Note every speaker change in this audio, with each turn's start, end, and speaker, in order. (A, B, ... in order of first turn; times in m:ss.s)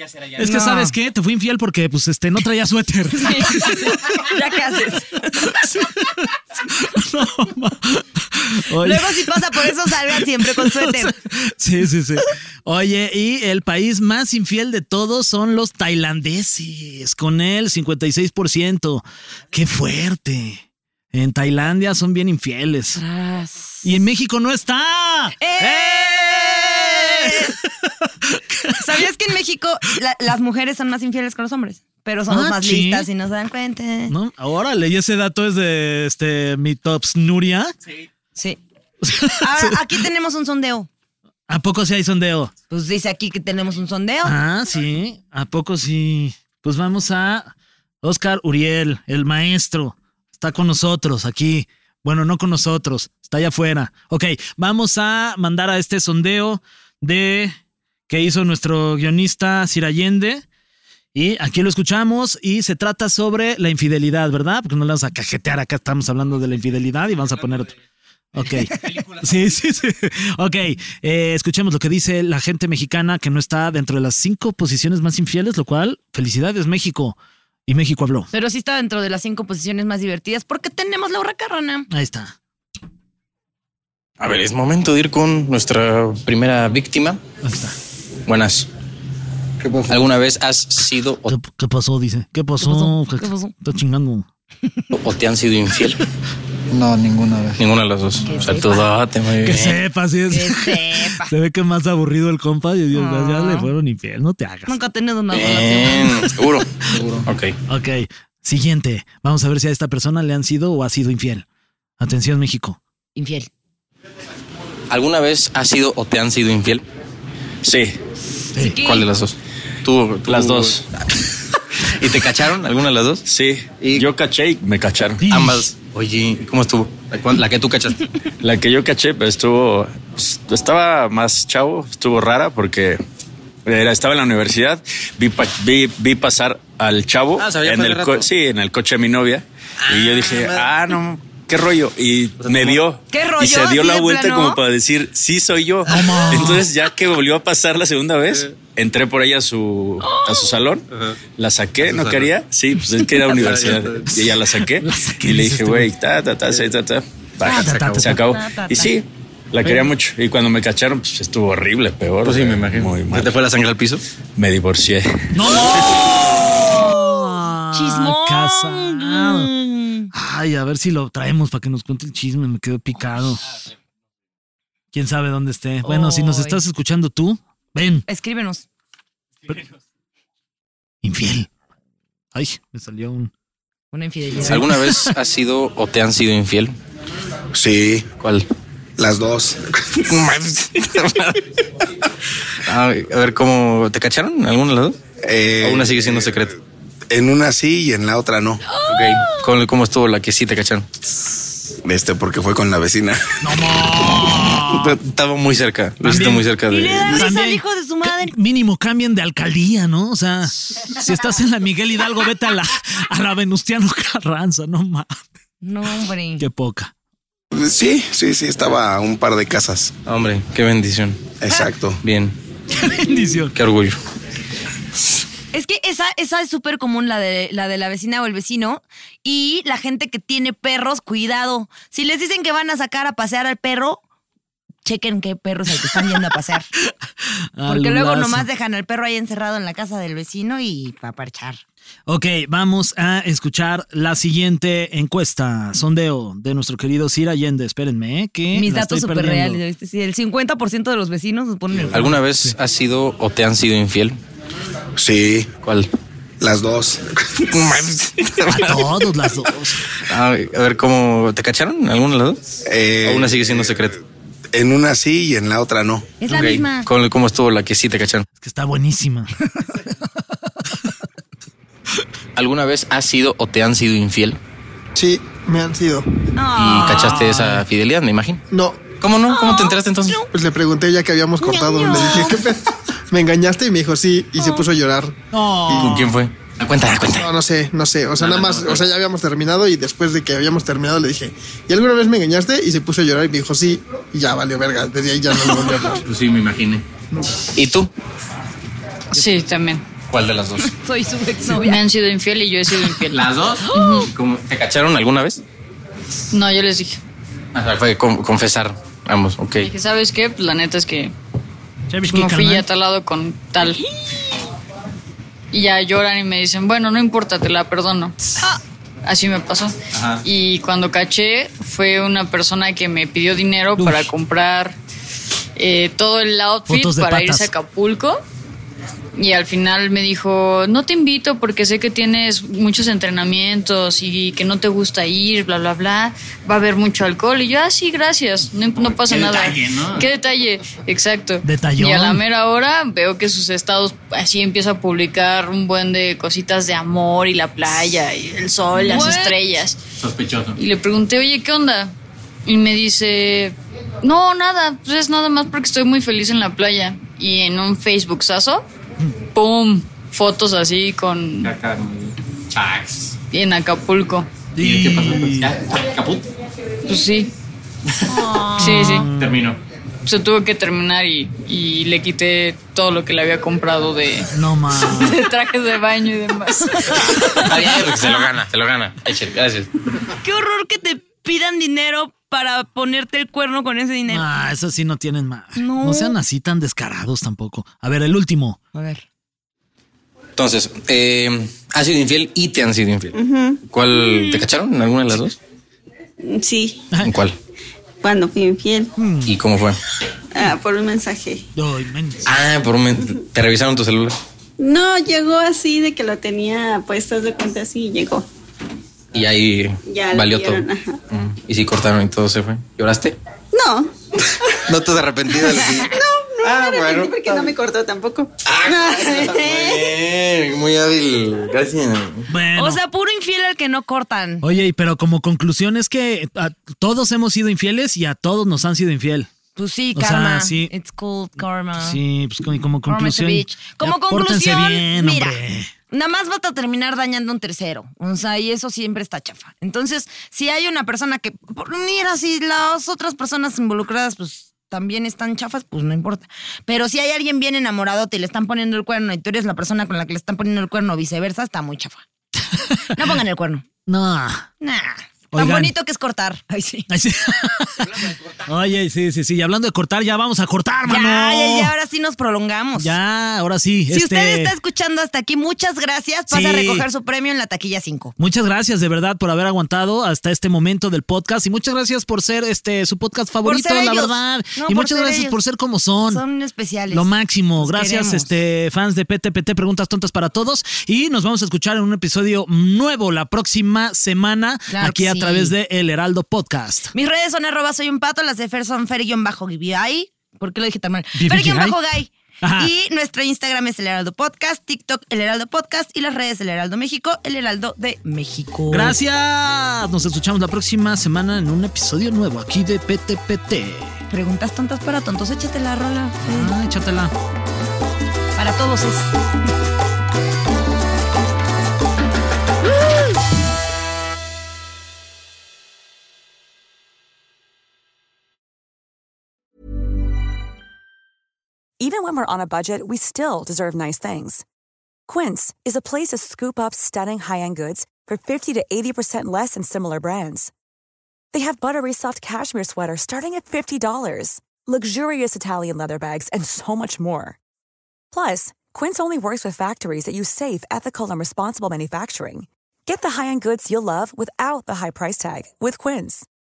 0:00.3-0:04.0 A
0:00.4-0:00.9 B
0:03.1-0:05.6 B
0:05.4-0:23.0 A
0:08.7-0:11.1 B
0:23.0-0:23.8 B
0:23.8-0:29.0 A
0:25.4-0:27.6 B
0:28.7-0:34.1 B
0:32.3-0:33.1 A
0:34.1-0:37.7 A
0:39.0-0:39.8 A
0:39.4-0:40.9 B
0:41.5-0:42.5 A
0:42.7-0:44.4 B
0:44.2-0:57.5 A
0:58.1-1:00.4 A
1:01.1-1:07.7 A
1:08.3-1:18.3 A
1:18.3-1:21.9 B
1:21.9-1:22.3 A
1:24.2-1:27.2 C
1:27.4-1:27.8 A
1:28.3-1:28.7 C
1:29.6-1:31.4 C
1:31.3-1:34.2 A
1:32.6-1:33.5 B
1:34.9-1:36.0 C
1:36.7-1:39.8 C
1:38.2-1:38.9 B
1:39.4-1:44.8 A
1:40.3-1:41.3 B
1:42.9-1:43.7 B
1:44.7-1:46.3 B
1:45.3-1:47.6 C
1:47.7-1:51.4 A
1:52.0-1:52.8 A
1:53.1-1:53.5 B
1:54.9-1:56.8 C
1:57.6-1:58.0 D
1:58.6-1:59.1 B
1:58.7-2:00.8 C
2:00.2-2:00.8 D
2:01.8-2:03.2 C
2:03.2-2:05.2 D
2:03.8-2:04.0 C
2:05.2-2:05.6 A
2:05.2-2:08.0 C
2:08.4-2:13.0 D
2:13.6-2:43.3 D
2:17.4-2:18.3 C
2:19.8-2:20.9 C
2:22.4-2:22.8 C
2:23.1-2:24.6 B
2:25.9-2:26.7 A
2:30.0-2:30.4 B
2:31.8-2:32.3 C
2:33.2-2:34.2 C
2:34.4-2:35.9 A
2:37.4-2:38.2 A
2:37.4-2:38.9 B
2:37.5-2:38.0 C
2:39.6-2:39.9 A
2:42.2-2:44.0 C
2:44.4-2:45.4 D
2:45.3-2:49.5 A
2:45.9-2:50.1 B
2:50.1-2:53.4 A
2:54.9-2:58.0 A
2:55.8-2:56.6 B
2:58.1-2:58.6 B
3:01.0-3:01.5 A
3:02.3-3:03.3 A
3:03.9-3:04.7 B
3:04.4-3:05.1 A
3:04.4-3:06.7 C
3:07.5-3:08.1 E
3:08.2-3:08.4 C
3:09.0-3:09.6 E
3:10.0-3:11.4 C
3:12.7-3:15.0 C
3:15.2-3:16.2 E
3:15.6-3:16.5 C
3:17.1-3:18.6 E
3:18.7-3:19.5 B
3:18.8-3:20.8 C
3:21.8-3:23.2 E
3:23.4-3:25.0 A
3:24.4-3:27.2 C
3:26.0-3:26.4 A
3:26.7-3:28.3 B
3:27.1-3:35.2 A
3:35.6-3:36.4 B
3:36.4-3:36.9 A
3:37.5-3:39.9 E
3:40.0-3:42.4 C
3:41.4-3:42.0 E
3:42.7-3:43.5 A
3:43.5-3:44.0 C
3:45.5-3:54.0 B
3:54.8-3:56.7 B
3:55.8-3:56.2 A
3:56.8-3:58.5 A
3:57.6-4:01.6 B
4:02.1-4:09.6 A
4:08.5-4:12.2 B
4:11.9-4:14.2 C
4:15.0-4:15.5 E
4:15.6-4:15.9 C
4:16.4-4:17.0 E
4:17.5-4:18.9 C
4:18.4-4:19.8 A
4:20.1-4:22.4 C
4:22.7-4:23.7 E
4:23.0-4:24.0 C
4:24.5-4:26.2 E
4:26.2-4:26.9 B
4:26.2-4:28.3 C
4:28.4-4:29.3 A
4:32.4-4:34.4 C
4:34.9-4:36.0 F
4:36.4-4:37.2 B
4:36.5-4:40.2 C
4:36.6-4:37.6 A
4:38.5-4:38.9 F
4:39.3-4:40.3 B
4:40.3-4:46.0 F
4:41.4-4:42.5 B
4:44.4-4:44.6 B
4:45.3-4:46.1 A
4:45.6-4:47.3 C
4:47.1-4:56.0 F
4:48.2-4:48.8 C
4:56.0-4:56.8 C
4:57.5-4:57.9 C
4:59.1-4:59.8 G
5:00.1-5:00.7 C
5:00.6-5:01.8 B
5:01.5-5:04.1 G
5:03.2-5:05.4 C
5:03.7-5:04.1 B
5:06.3-5:07.0 G
5:07.5-5:09.7 C
5:09.6-5:11.1 G
5:11.9-5:12.6 A
5:12.1-5:13.8 G
5:15.5-5:18.1 G
5:19.0-5:24.8 G
5:23.8-5:24.1 A
5:25.6-5:28.2 G
5:26.7-5:27.5 A
5:29.2-5:49.8 G
5:39.1-5:40.0 C
5:41.4-5:42.2 A
5:48.9-5:49.4 B
5:50.0-5:50.4 C
5:50.5-5:51.9 G
5:52.4-5:58.6 G
5:59.3-6:01.5 G
6:01.5-6:03.1 C
6:03.3-6:04.3 G
6:04.6-6:05.5 A
6:04.6-6:06.2 C
6:06.9-6:07.3 G
6:08.1-6:08.8 B
6:08.6-6:09.1 G
6:08.6-6:09.5 A
6:09.2-6:09.6 C
6:10.0-6:17.3 G
6:14.3-6:15.2 A
6:16.7-6:17.2 B
6:17.2-6:19.7 C
6:20.2-6:24.3 B
6:24.1-6:28.6 A
6:25.6-6:26.2 B
6:28.7-6:29.0 B
6:30.4-6:35.4 C
6:33.2-6:33.6 H
6:36.2-6:36.9 H
6:37.0-6:37.4 C
6:38.0-6:38.9 H
6:39.0-6:39.3 A
6:39.2-6:39.8 C
6:40.3-6:41.4 H
6:41.6-6:42.2 A
6:42.2-6:44.2 C
6:44.6-6:48.2 H
6:49.1-6:53.2 C
6:49.8-6:51.0 H
6:53.5-6:53.9 H
6:54.6-6:57.5 C
6:55.4-7:00.0 H
6:58.4-7:02.3 C
7:02.3-7:02.8 A
7:02.6-7:04.4 B
7:04.4-7:09.3 A
7:09.6-7:12.0 B
7:09.9-7:10.7 A
7:11.7-7:15.7 A
7:12.8-7:32.0 B
7:32.5-7:32.8 A
7:32.9-7:33.6 B
7:33.8-7:34.5 A
7:34.6-7:36.9 B
7:35.3-7:35.7 A
7:36.9-7:41.7 A
7:40.8-7:42.9 B
7:42.8-7:44.5 A
7:43.9-7:48.1 B
7:46.3-7:46.9 A
7:48.2-7:56.2 A
7:53.4-7:55.4 B
7:56.1-7:58.3 B
7:56.9-8:06.9 A
8:04.7-8:05.5 B
8:06.9-8:19.0 B
8:11.2-8:11.8 A
8:12.4-8:12.7 A
8:18.7-8:24.0 A
8:24.1-8:26.5 B
8:26.2-8:27.1 A
8:28.4-8:29.1 B
8:41.8-8:44.4 I
8:45.1-8:50.5 I
8:51.3-8:57.4 I
8:58.1-9:06.2 I